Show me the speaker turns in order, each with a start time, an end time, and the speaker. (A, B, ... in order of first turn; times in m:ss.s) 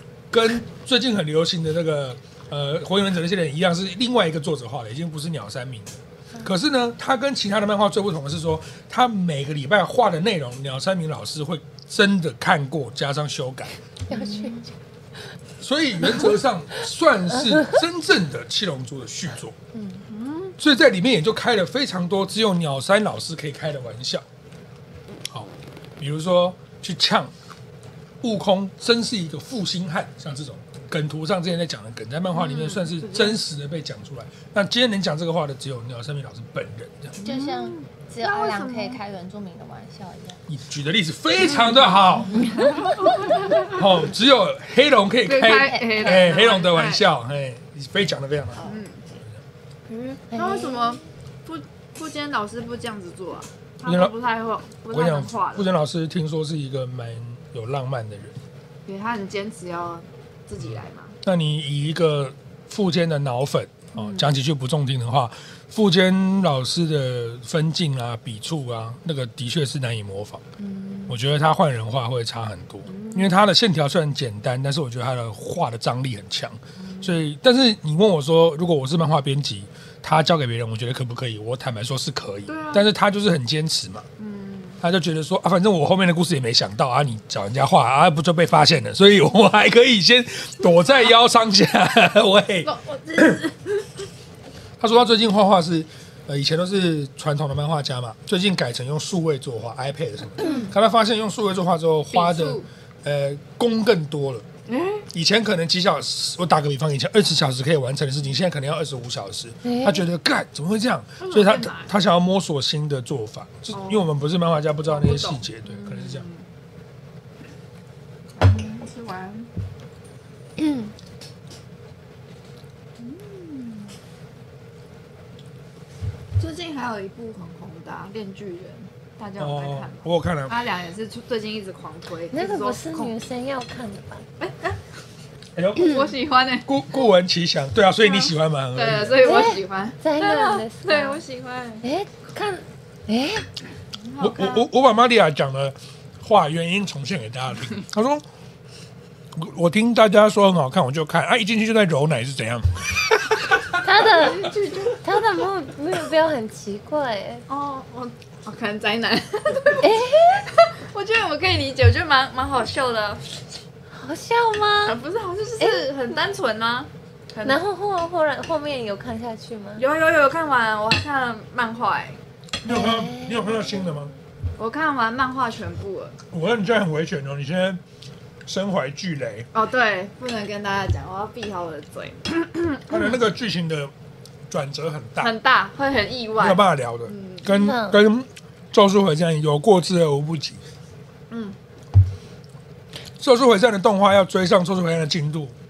0:00.3-0:13.8 A
0:14.1-0:14.7 B
0:15.6-0:19.6 A
0:20.0-0:20.6 C
0:20.6-0:24.2 A
0:25.3-0:27.3 A
0:28.2-0:37.2 A
0:32.3-0:33.4 C
0:37.2-0:39.0 C
0:37.2-0:40.4 D
0:40.5-0:42.5 A
0:41.5-0:43.8 C
0:43.7-0:49.4 A
0:45.3-0:47.0 C
0:45.5-0:46.4 D
0:48.6-0:48.8 D
0:48.6-0:49.0 C
0:49.9-0:55.7 C
0:50.3-0:51.0 B
0:53.8-0:54.1 A
0:54.9-0:58.4 A
0:58.9-1:01.2 C
1:00.6-1:10.4 A
1:04.0-1:04.3 C
1:10.6-1:11.2 C
1:11.1-1:24.1 A
1:12.9-1:13.3 C
1:16.8-1:17.2 C
1:22.5-1:22.9 C
1:24.2-1:24.8 C
1:24.8-1:33.4 A
1:32.6-1:33.9 C
1:34.8-1:44.4 A
1:42.1-1:42.7 C
1:44.7-1:45.0 C
1:45.1-1:56.3 A
1:49.6-1:50.0 B
1:51.2-1:51.9 C
1:53.7-1:54.1 C
1:54.9-1:56.5 C
1:58.4-1:59.5 C
2:00.6-2:00.9 B
2:03.0-2:03.9 C
2:06.4-2:13.1 C
2:09.4-2:10.6 A
2:12.3-2:14.2 B
2:14.4-2:14.8 C
2:15.6-2:16.0 A
2:15.8-2:16.7 C
2:16.7-2:19.4 A
2:18.0-2:21.8 C
2:19.2-2:21.2 B
2:21.8-2:23.4 B
2:24.0-2:24.7 C
2:24.2-2:28.2 A
2:29.4-2:33.9 A
2:33.8-2:37.4 B
2:34.0-2:35.0 C
2:37.5-2:43.2 C
2:39.8-2:40.5 B
2:43.9-2:45.0 B
2:44.8-2:47.6 C
2:45.6-2:45.9 B
2:47.4-2:49.8 B
2:49.8-2:52.2 C
2:52.6-2:54.1 A
2:52.6-2:54.0 B
2:54.6-2:56.2 C
2:56.3-2:57.8 A
2:58.5-2:59.5 A
2:59.5-3:03.2 C
3:02.9-3:03.9 A
3:04.5-3:05.3 A
3:05.2-3:07.5 C
3:06.4-3:10.6 A
3:07.5-3:08.0 B
3:11.3-3:11.6 C
3:13.2-3:15.6 A